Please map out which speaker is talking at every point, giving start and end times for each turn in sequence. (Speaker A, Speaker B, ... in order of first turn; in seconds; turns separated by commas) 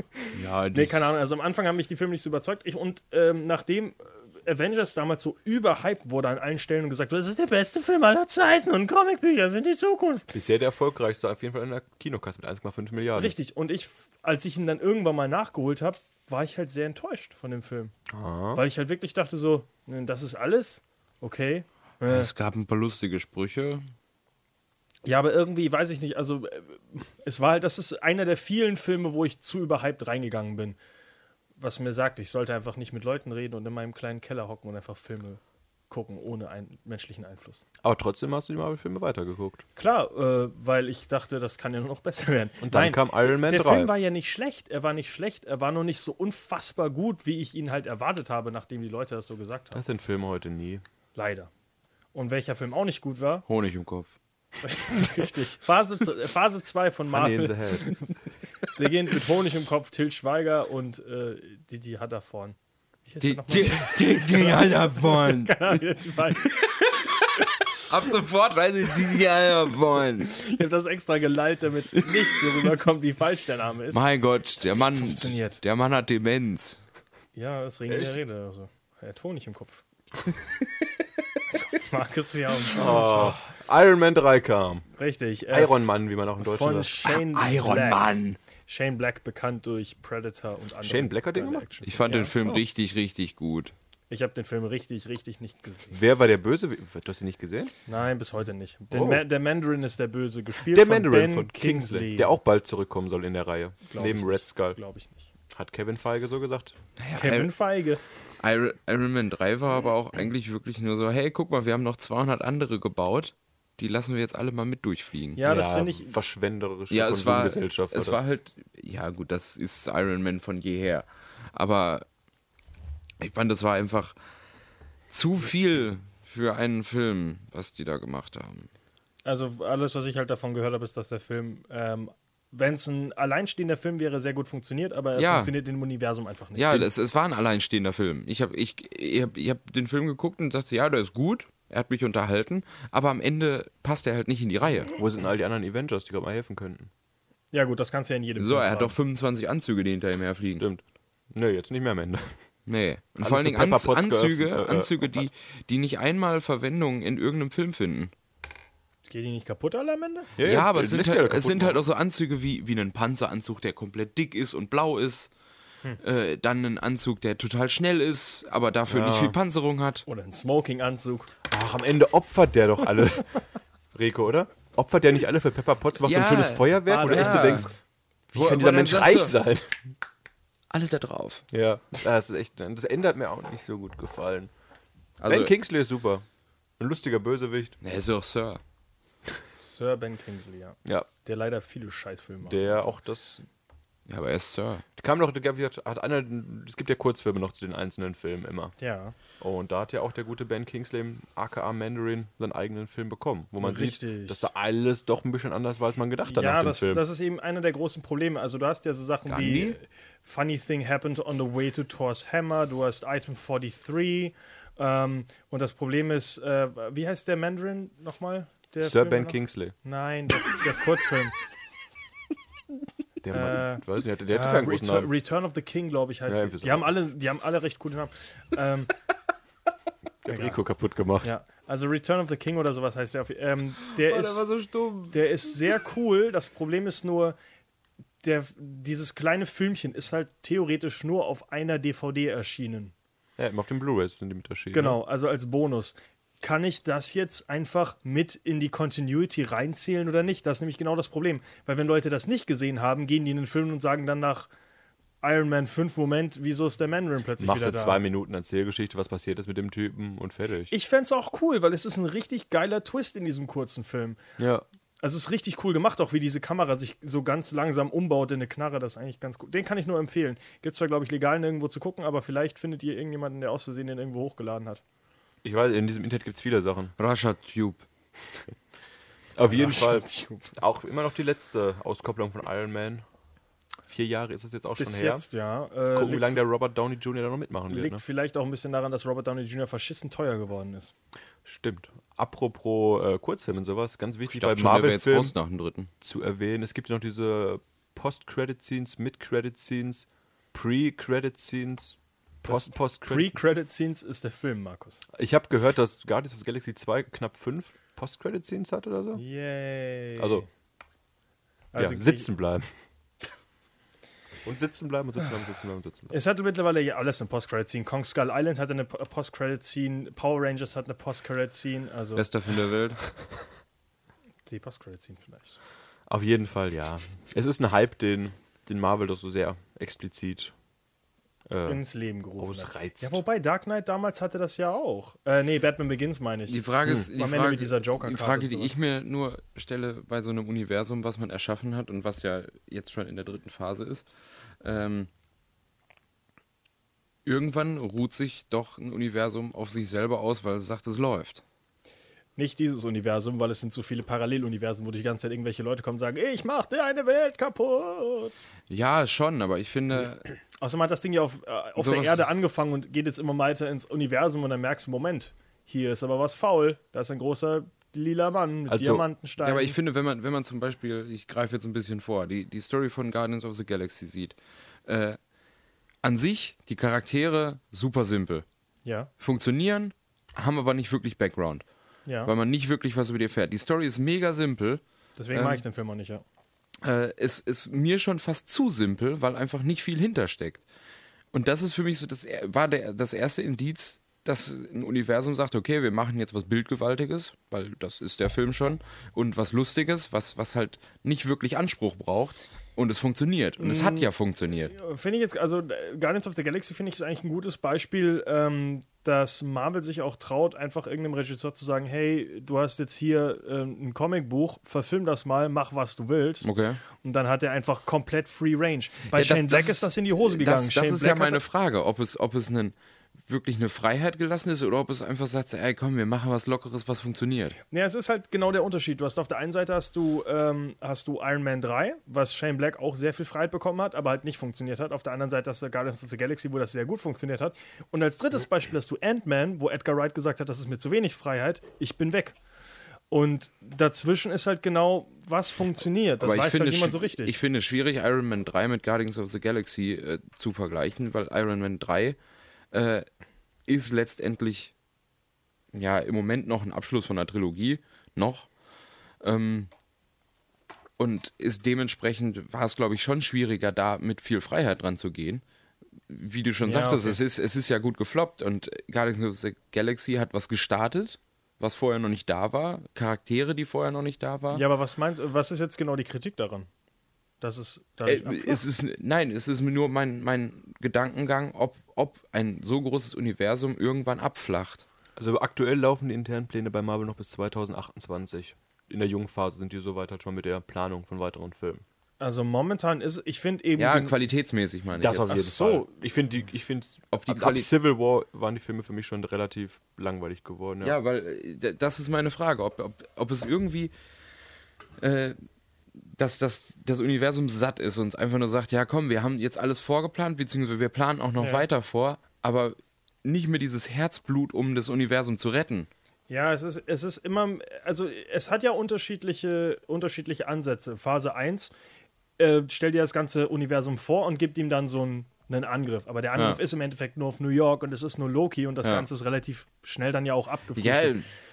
Speaker A: 0.2-10.3, Speaker B: 0.3-1.1, Speaker C: 10.3-13.3, Speaker A: 13.1-17.9, Speaker C: 18.1-18.6, Speaker A: 18.5-22.3, Speaker B: 22.1-23.8, Speaker A: 25.0-30.8, Speaker A: 31.6-37.6, Speaker C: 37.8-39.6, Speaker A: 39.8-49.8, Speaker C: 42.6-43.9, Speaker C: 49.7-50.8, Speaker A: 51.1-51.5, Speaker A: 52.1-53.5, Speaker B: 53.5-54.1, Speaker A: 54.6-58.1, Speaker C: 57.1-58.0, Speaker A: 58.6-66.6, Speaker B: 63.2-65.8, Speaker B: 66.4-70.3, Speaker A: 70.3-74.0, Speaker B: 72.0-72.7, Speaker B: 73.9-76.8, Speaker A: 74.7-75.6, Speaker A: 77.3-79.8, Speaker C: 77.9-78.2, Speaker A: 81.5-83.4, Speaker C: 82.7-84.8, Speaker A: 85.0-88.0, Speaker C: 85.5-86.9, Speaker B: 87.0-88.4, Speaker A: 88.7-92.3, Speaker C: 90.8-91.7, Speaker B: 91.8-93.7, Speaker A: 94.1-96.0, Speaker C: 95.9-97.7, Speaker A: 97.9-102.4, Speaker C: 98.9-99.2, Speaker C: 100.7-104.8, Speaker A: 103.9-105.3, Speaker C: 105.5-106.8, Speaker B: 107.0-107.5, Speaker A: 107.1-108.0, Speaker B: 108.4-115.4, Speaker A: 115.3-116.1, Speaker C: 115.4-118.2, Speaker B: 116.9-122.0, Speaker B: 123.2-124.1, Speaker B: 125.1-128.7, Speaker A: 129.2-136.9, Speaker B: 135.2-135.5, Speaker B: 136.5-144.9, Speaker C: 144.9-146.9, Speaker A: 147.5-148.9, Speaker B: 148.4-150.6, Speaker C: 150.6-152.3, Speaker B: 152.7-158.1, Speaker C: 153.2-155.3, Speaker A: 159.1-160.3, Speaker C: 160.4-161.8, Speaker B: 160.4-165.3, Speaker B: 166.0-170.0, Speaker C: 168.9-169.4, Speaker A: 170.1-171.3, Speaker C: 171.5-173.3, Speaker C: 173.9-177.7, Speaker B: 176.0-177.7, Speaker A: 176.9-177.7, Speaker C: 178.3-179.8, Speaker B: 178.3-179.3, Speaker B: 180.7-181.4, Speaker C: 181.5-184.5, Speaker B: 185.2-185.5, Speaker C: 185.2-186.2, Speaker C: 186.8-187.8, Speaker B: 187.8-188.6, Speaker A: 189.6-192.9, Speaker C: 192.4-193.4, Speaker B: 194.1-194.8, Speaker C: 195.0-198.7, Speaker A: 198.8-199.2, Speaker C: 199.4-207.0, Speaker A: 203.6-204.5, Speaker A: 206.2-221.3, Speaker B: 209.3-209.8, Speaker C: 218.8-219.7, Speaker C: 223.2-225.1, Speaker A: 223.3-228.9, Speaker C: 226.3-226.9, Speaker C: 230.2-231.3, Speaker A: 230.3-230.6, Speaker A: 231.2-234.5, Speaker B: 233.8-235.5, Speaker A: 235.1-237.3, Speaker A: 238.2-242.9, Speaker C: 243.4-245.0, Speaker A: 244.7-254.5, Speaker A: 255.2-258.0, Speaker C: 257.4-260.7, Speaker A: 260.7-264.2, Speaker C: 264.4-264.6, Speaker A: 265.0-274.8, Speaker C: 275.4-276.9, Speaker B: 277.0-277.8, Speaker C: 279.3-283.0, Speaker A: 279.4-280.5, Speaker C: 283.9-285.2, Speaker A: 284.8-286.4, Speaker C: 285.9-288.0, Speaker A: 287.7-290.9, Speaker C: 291.4-295.3, Speaker B: 294.3-295.9, Speaker C: 296.0-303.4, Speaker A: 302.4-305.0, Speaker C: 305.1-309.2, Speaker A: 309.1-310.5, Speaker C: 310.2-310.4, Speaker A: 311.7-312.3, Speaker C: 311.7-312.7, Speaker C: 314.4-316.1, Speaker A: 316.1-322.2, Speaker B: 322.1-323.0, Speaker A: 324.4-325.6, Speaker C: 326.1-330.5, Speaker C: 331.5-331.8, Speaker A: 331.6-336.6, Speaker C: 332.4-333.2, Speaker B: 336.5-344.1, Speaker A: 337.1-338.7, Speaker B: 344.6-345.1, Speaker B: 347.2-351.4, Speaker A: 352.4-358.4, Speaker B: 358.7-360.2, Speaker A: 360.6-369.8, Speaker B: 361.8-362.2, Speaker C: 368.7-369.0, Speaker B: 369.4-375.2, Speaker B: 376.0-378.4, Speaker A: 378.8-379.1, Speaker B: 379.2-381.6, Speaker A: 382.1-382.3, Speaker B: 382.2-384.8, Speaker A: 385.2-386.2, Speaker B: 385.3-385.6, Speaker B: 386.8-390.6, Speaker B: 391.3-404.7, Speaker A: 403.6-404.1, Speaker A: 404.7-421.4, Speaker B: 416.4-416.8, Speaker B: 419.1-422.7, Speaker B: 423.3-427.6, Speaker A: 427.7-442.4, Speaker A: 443.1-447.4, Speaker B: 446.2-452.2, Speaker B: 452.7-453.1, Speaker B: 453.7-454.7, Speaker B: 455.7-458.5, Speaker B: 459.2-459.7, Speaker B: 461.0-465.4, Speaker B: 466.1-474.6, Speaker A: 466.6-467.2, Speaker A: 474.5-476.7, Speaker A: 477.4-478.6, Speaker B: 478.0-484.8, Speaker C: 485.2-491.8, Speaker A: 492.2-494.1, Speaker B: 493.8-495.3, Speaker C: 495.0-500.9, Speaker A: 495.3-495.9, Speaker B: 497.1-497.7, Speaker B: 500.8-503.9, Speaker B: 505.0-505.4, Speaker B: 506.0-515.9, Speaker A: 511.4-511.6, Speaker A: 516.3-521.7, Speaker A: 522.4-531.1, Speaker B: 530.8-531.3